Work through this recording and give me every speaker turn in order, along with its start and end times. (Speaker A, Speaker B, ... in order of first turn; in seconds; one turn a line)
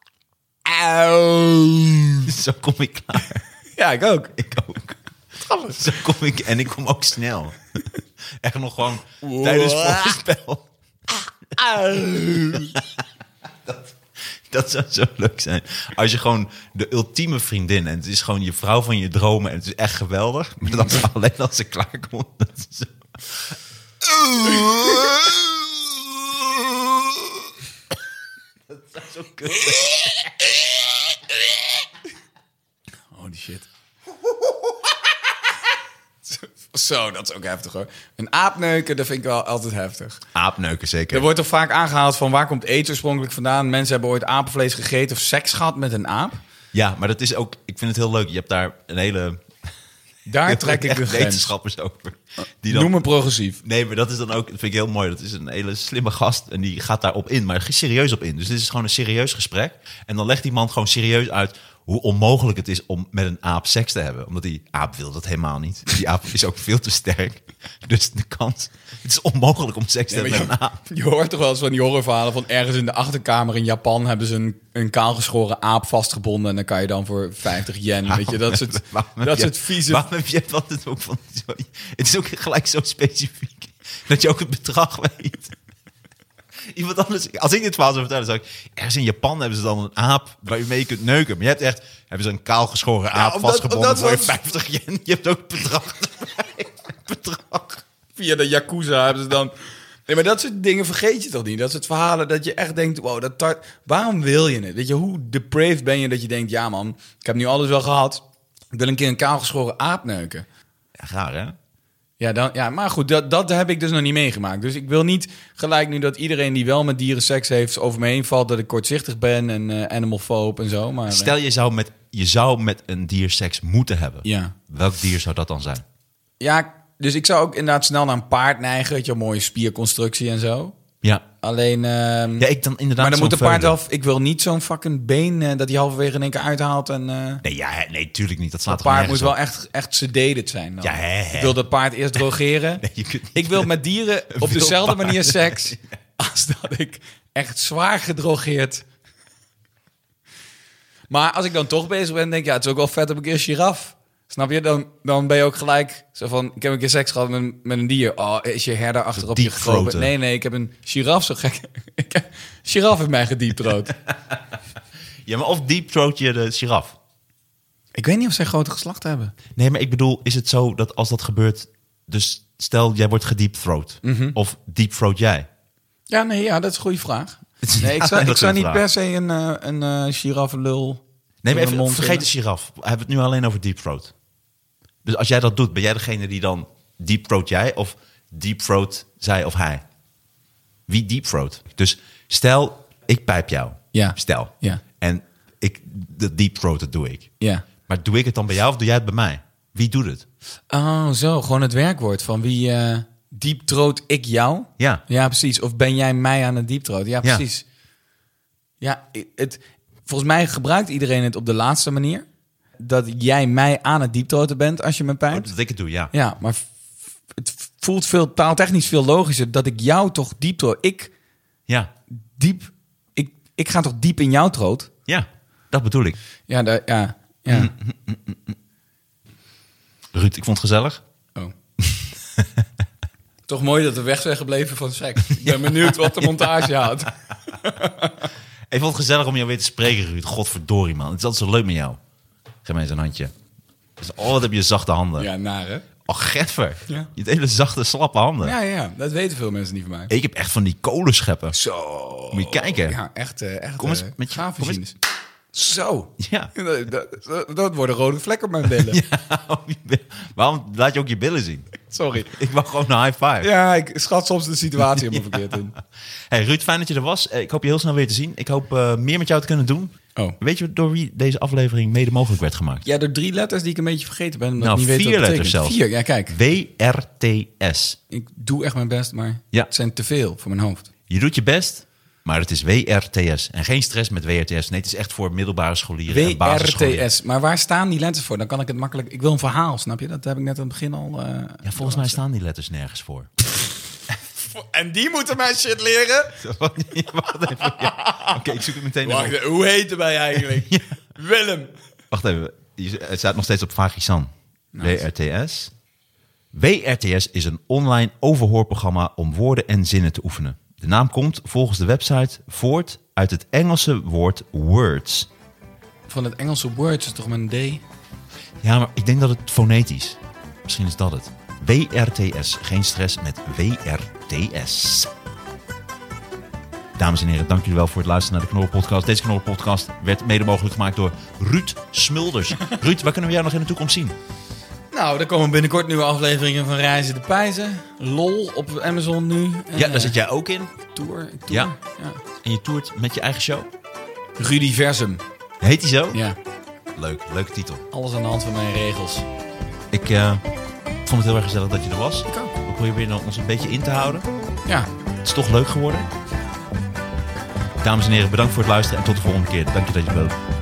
Speaker A: 0.7-2.2
Speaker B: 2.2-3.5
Speaker A: 3.8-4.3
Speaker B: 4.4-5.0
Speaker A: 5.5-5.8
Speaker B: 5.7-7.8
Speaker B: 8.4-11.8
Speaker A: 9.2-10.2
Speaker A: 11.6-12.7
Speaker B: 12.4-12.8
Speaker B: 13.7-14.0
Speaker B: 14.5-27.3
Speaker A: 24.5-24.9
Speaker B: 28.7-30.5
Speaker A: 29.8-30.1
Speaker A: 33.1-33.7
Speaker A: 36.3-40.2
Speaker B: 40.4-41.3
Speaker A: 41.1-46.4
Speaker B: 46.7-49.4
Speaker A: 50.3-51.5
Speaker B: 50.5-53.0
Speaker A: 52.7-53.6
Speaker B: 53.6-70.8
Speaker A: 70.1-80.0
Speaker B: 78.1-85.5
Speaker B: 86.7-97.8
Speaker A: 93.1-94.4
Speaker A: 98.2-99.5
Speaker A: 100.1-110.5
Speaker B: 111.0-111.6
Speaker A: 112.2-121.3
Speaker B: 121.1-125.8
Speaker A: 124.2-124.5
Speaker A: 126.4-130.8
Speaker A: 131.4-132.5
Speaker B: 132.4-133.8
Speaker A: 133.0-137.4
Speaker B: 137.4-139.4
Speaker A: 138.7-148.8
Speaker B: 140.8-141.6
Speaker B: 142.8-143.8
Speaker B: 144.3-145.8
Speaker A: 151.1-163.9
Speaker B: 159.2-160.1
Speaker B: 163.7-164.4
Speaker B: 165.3-167.0
Speaker A: 167.9-169.3
Speaker B: 169.6-175.5
Speaker A: 174.0-174.4
Speaker A: 176.1-182.3
Speaker B: 177.6-178.8
Speaker B: 181.4-184.1
Speaker B: 185.1-189.8
Speaker B: 190.9-197.3
Speaker A: 193.9-194.8
Speaker B: 197.9-200.2
Speaker A: 200.7-207.7
Speaker A: 208.8-212.3
Speaker A: 212.8-215.5
Speaker B: 215.3-216.1
Speaker A: 216.1-216.7
Speaker A: 217.3-221.1
Speaker A: 222.3-224.9
Speaker B: 225.1-226.2
Speaker A: 226.5-227.7
Speaker B: 227.5-228.6
Speaker B: 230.1-231.0
Speaker A: 233.5-238.3
Speaker B: 235.4-236.9
Speaker B: 238.7-242.0
Speaker B: 242.7-243.3
Speaker B: 244.0-245.3
Speaker A: 245.2-245.9
Speaker B: 246.1-248.6
Speaker A: 248.4-250.1
Speaker B: 250.1-251.6
Speaker A: 251.5-255.0
Speaker B: 252.3-253.0
Speaker B: 253.8-254.8
Speaker A: 255.5-259.0
Speaker B: 256.2-256.5
Speaker B: 258.8-261.8
Speaker A: 261.9-262.3
Speaker B: 262.3-263.5
Speaker A: 263.4-265.8
Speaker B: 264.8-265.6
Speaker B: 266.3-272.9
Speaker A: 272.9-276.3
Speaker B: 274.6-278.0
Speaker A: 278.1-280.9
Speaker B: 281.1-287.1
Speaker A: 286.1-292.2
Speaker B: 291.6-293.3
Speaker A: 294.5-296.4
Speaker B: 296.4-299.4
Speaker A: 297.8-301.7
Speaker B: 300.6-300.8
Speaker B: 302.1-305.7
Speaker A: 304.7-305.1
Speaker B: 306.5-315.3
Speaker A: 316.1-317.8
Speaker B: 318.6-325.1
Speaker B: 327.0-334.2
Speaker A: 334.9-340.2
Speaker B: 339.8-340.7
Speaker A: 340.9-342.2
Speaker B: 342.4-343.7
Speaker A: 344.4-345.2
Speaker B: 345.6-346.2
Speaker B: 347.0-347.8
Speaker A: 347.9-349.2
Speaker B: 349.9-350.4
Speaker B: 351.1-354.3
Speaker B: 355.2-356.1
Speaker B: 357.8-360.4